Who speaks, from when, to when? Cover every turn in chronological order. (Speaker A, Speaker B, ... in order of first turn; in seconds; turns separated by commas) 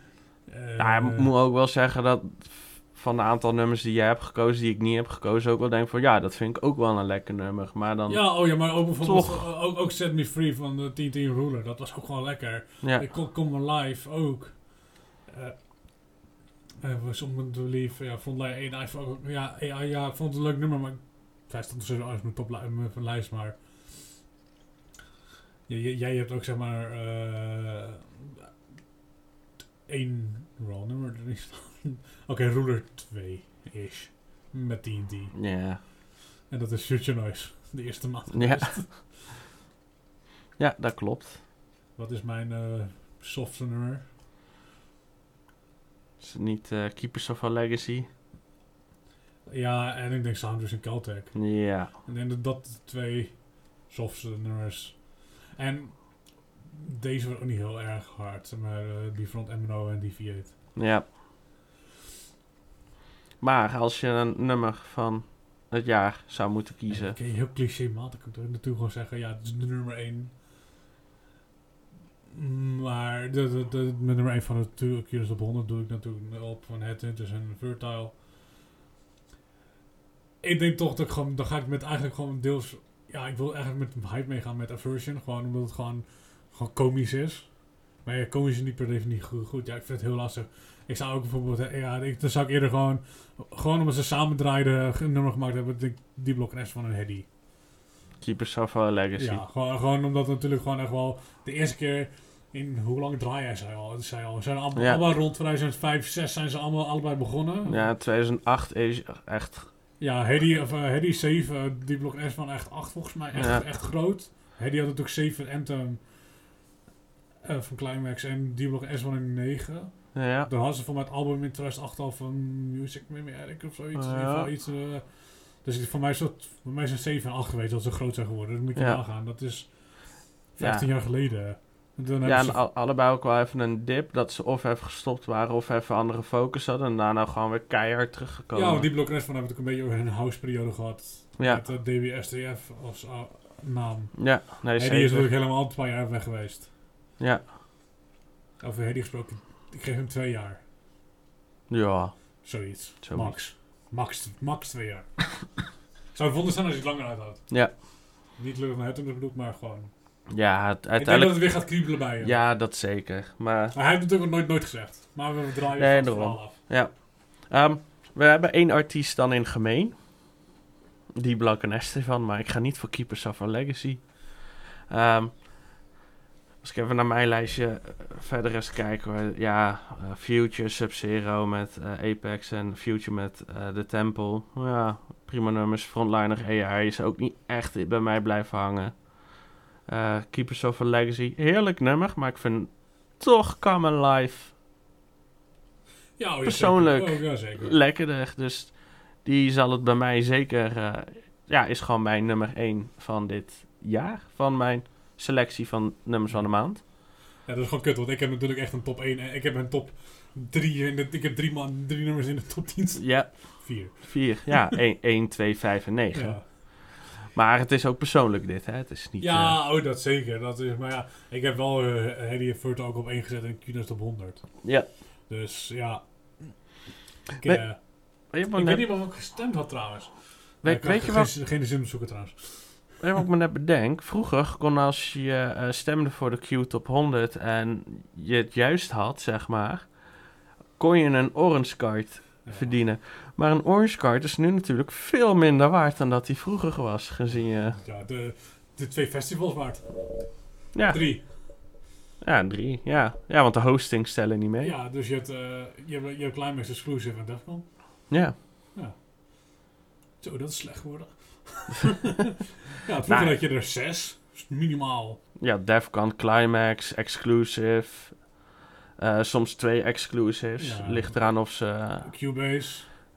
Speaker A: 0.5-1.3, Speaker B: 0.8-9.5, Speaker A: 8.1-16.3, Speaker A: 16.8-24.3, Speaker A: 25.7-28.3, Speaker A: 29.9-35.9, Speaker B: 35.3-35.8, Speaker A: 36.5-39.1, Speaker B: 38.3-39.0, Speaker B: 40.6-41.4, Speaker A: 42.0-44.1, Speaker B: 46.2-48.1, Speaker A: 49.5-60.8, Speaker B: 51.3-51.9, Speaker B: 60.7-61.1, Speaker B: 63.4-67.2, Speaker A: 66.9-70.4, Speaker A: 72.3-78.2, Speaker A: 80.4-97.3, Speaker B: 98.2-99.4, Speaker A: 99.2-107.9, Speaker B: 104.7-105.1, Speaker B: 107.7-109.7, Speaker A: 110.0-116.7, Speaker B: 113.3-113.6, Speaker A: 117.4-132.6, Speaker B: 120.1-120.5, Speaker B: 123.9-124.5, Speaker B: 128.7-129.0, Speaker B: 130.6-130.9, Speaker B: 132.2-138.9, Speaker A: 138.5-146.7, Speaker B: 141.4-141.6, Speaker B: 144.2-145.3, Speaker B: 147.2-147.5, Speaker A: 148.6-150.6, Speaker B: 151.7-153.4, Speaker A: 152.4-160.3, Speaker B: 160.3-163.7, Speaker A: 160.9-162.4, Speaker A: 163.7-166.6, Speaker B: 165.8-170.5, Speaker B: 171.2-175.8, Speaker B: 176.6-194.5, Speaker A: 196.2-197.8, Speaker B: 196.4-206.8, Speaker A: 206.3-214.6, Speaker B: 213.0-219.6, Speaker A: 216.1-216.4, Speaker A: 219.2-233.0, Speaker B: 224.6-224.9, Speaker B: 227.4-228.9, Speaker B: 230.6-231.3, Speaker B: 233.0-247.8, Speaker A: 242.4-242.8, Speaker A: 247.3-251.4, Speaker B: 250.7-251.6, Speaker B: 252.2-254.7, Speaker A: 254.6-258.2, Speaker B: 258.1-258.4, Speaker A: 258.7-259.6, Speaker A: 260.2-262.0, Speaker A: 262.8-265.2, Speaker B: 263.1-263.4, Speaker B: 265.4-272.1, Speaker A: 270.6-272.9